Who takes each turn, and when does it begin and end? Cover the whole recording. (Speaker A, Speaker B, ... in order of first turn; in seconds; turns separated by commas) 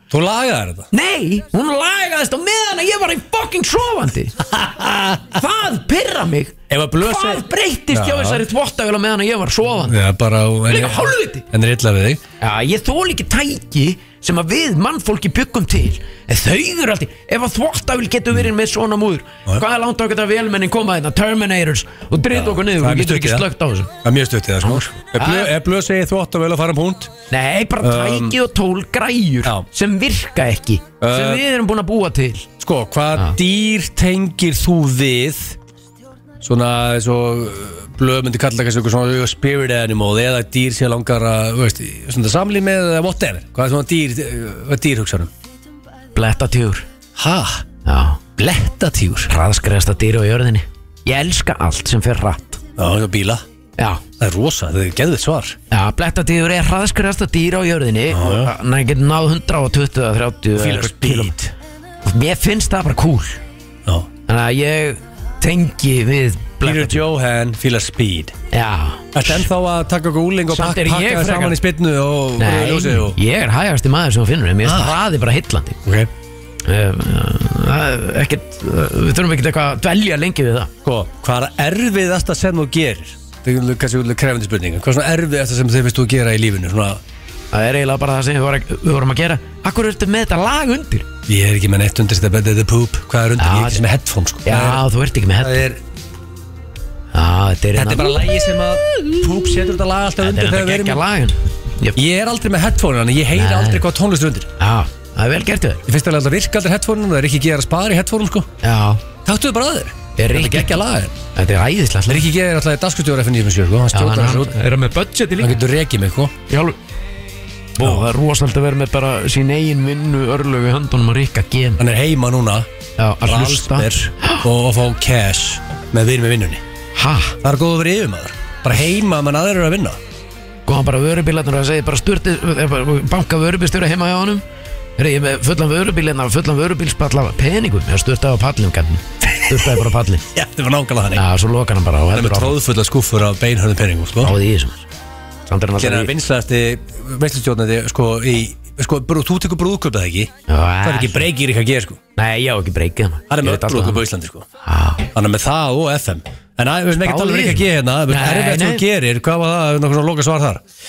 Speaker A: 0.1-0.9, Speaker B: 0.9-4.4, Speaker A: 4.5-5.3, Speaker B: 5.3-10.0, Speaker A: 6.7-8.4, Speaker A: 9.9-12.2, Speaker B: 10.7-11.4, Speaker B: 12.4-23.9, Speaker A: 22.3-23.5, Speaker A: 24.0-27.1, Speaker B: 24.6-25.5, Speaker B: 27.3-32.5, Speaker A: 27.8-28.4, Speaker A: 31.0-31.4, Speaker A: 32.6-35.6, Speaker A: 36.4-45.3, Speaker B: 46.1-46.9, Speaker A: 47.2-47.6, Speaker B: 47.9-48.2, Speaker A: 48.4-49.3, Speaker B: 49.3-52.6, Speaker A: 52.8-53.4, Speaker B: 53.8-54.0, Speaker A: 54.2-55.6, Speaker B: 55.7-61.5, Speaker A: 58.1-58.5, Speaker A: 60.6-61.4, Speaker B: 62.0-63.4, Speaker B: 64.3-67.0, Speaker A: 66.6-68.3, Speaker B: 68.5-69.4, Speaker A: 69.2-73.2, Speaker B: 70.5-71.6, Speaker B: 72.4-75.8, Speaker A: 74.6-74.9, Speaker B: 76.7-80.7, Speaker A: 80.8-87.0, Speaker B: 87.5-91.1, Speaker A: 91.3-94.8, Speaker B: 93.4-93.8, Speaker B: 94.5-95.6, Speaker A: 95.4-95.8, Speaker B: 97.1-98.3, Speaker A: 97.8-101.0, Speaker B: 100.2-102.0, Speaker A: 102.0-104.5, Speaker B: 103.3-103.8, Speaker B: 104.6-105.8, Speaker A: 105.9-108.5, Speaker B: 108.6-109.0, Speaker A: 109.2-111.2, Speaker B: 110.2-110.8, Speaker B: 111.3-112.3, Speaker A: 112.1-114.6, Speaker B: 113.9-115.6, Speaker A: 115.4-116.3, Speaker B: 116.5-116.8, Speaker B: 117.8-121.8, Speaker A: 121.8-122.7, Speaker B: 123.0-124.5, Speaker A: 123.2-126.6, Speaker B: 127.0-127.4, Speaker A: 127.4-130.0, Speaker B: 130.7-134.4, Speaker B: 135.0-140.2, Speaker A: 139.4-139.8, Speaker A: 140.3-141.2, Speaker B: 141.1-142.6, Speaker A: 142.1-144.3, Speaker B: 144.2-144.9, Speaker B: 145.5-146.1, Speaker A: 145.8-150.3, Speaker B: 150.5-151.3, Speaker A: 150.8-152.0, Speaker B: 152.2-154.1, Speaker A: 153.3-154.5, Speaker B: 154.7-155.1, Speaker A: 155.1-160.6, Speaker B: 157.0-158.8